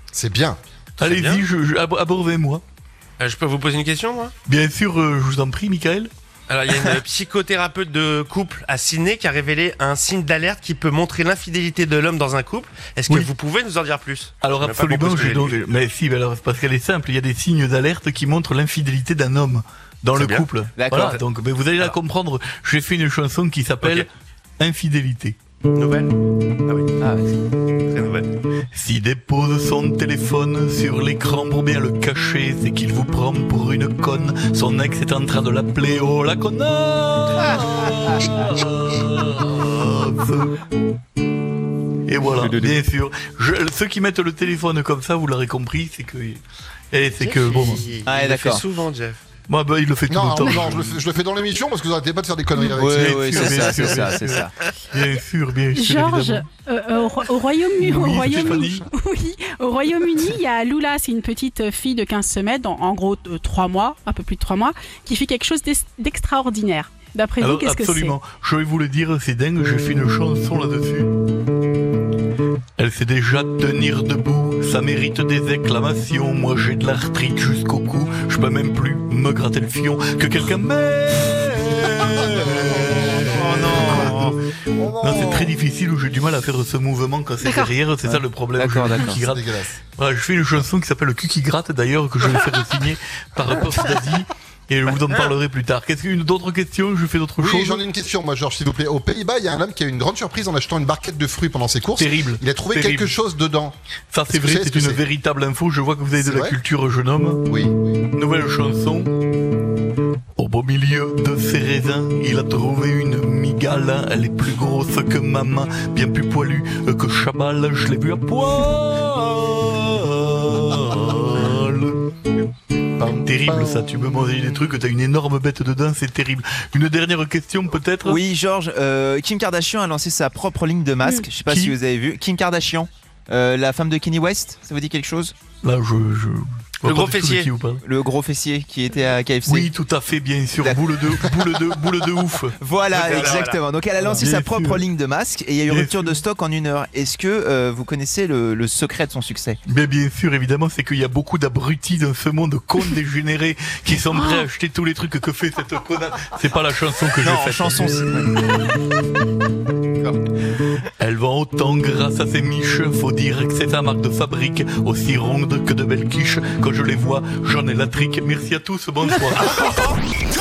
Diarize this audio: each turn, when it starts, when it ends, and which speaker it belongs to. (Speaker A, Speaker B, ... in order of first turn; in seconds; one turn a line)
Speaker A: 0.1-0.6
Speaker B: 1.0-1.4
Speaker C: 1.0-2.6
Speaker B: 3.2-4.3
Speaker C: 4.5-6.1
Speaker B: 6.5-15.6
Speaker C: 14.4-25.4
Speaker B: 20.1-20.5
Speaker D: 20.8-21.2
Speaker B: 23.8-24.1
Speaker B: 25.7-26.1
Speaker B: 26.6-26.9
Speaker D: 27.0-27.3
Speaker B: 27.9-28.3
Speaker C: 28.7-40.5
Speaker C: 42.0-47.8
Speaker D: 42.4-42.7
Speaker B: 47.2-49.2
Speaker D: 48.0-48.6
Speaker C: 49.5-51.0
Speaker A: 50.1-53.8
Speaker D: 52.7-54.5
Speaker C: 52.8-56.5
Speaker E: 55.7-68.2
Speaker C: 57.8-58.9
Speaker C: 67.4-71.1
Speaker C: 72.8-84.4
Speaker A: 82.3-83.0
Speaker D: 83.3-84.3
Speaker A: 84.8-85.1
Speaker C: 85.0-97.8
Speaker D: 85.1-85.5
Speaker D: 88.0-89.2
Speaker A: 89.1-89.8
Speaker A: 97.4-103.8
Speaker C: 101.9-103.2
Speaker C: 104.1-107.4
Speaker A: 104.3-105.0
Speaker A: 106.2-106.5
Speaker A: 107.5-108.0
Speaker C: 108.1-109.1
Speaker C: 110.3-122.0
Speaker A: 123.0-123.9
Speaker C: 123.2-128.2
Speaker D: 128.0-135.3
Speaker E: 131.0-131.3
Speaker C: 131.4-131.8
Speaker C: 135.6-137.8
Speaker B: 136.8-137.5
Speaker D: 137.8-139.7
Speaker C: 139.4-142.6
Speaker D: 140.6-141.5
Speaker D: 142.6-149.6
Speaker B: 142.9-143.6
Speaker C: 143.1-143.3
Speaker C: 144.0-144.8
Speaker C: 145.7-146.2
Speaker C: 149.6-158.1
Speaker D: 157.2-158.3
Speaker C: 161.0-169.8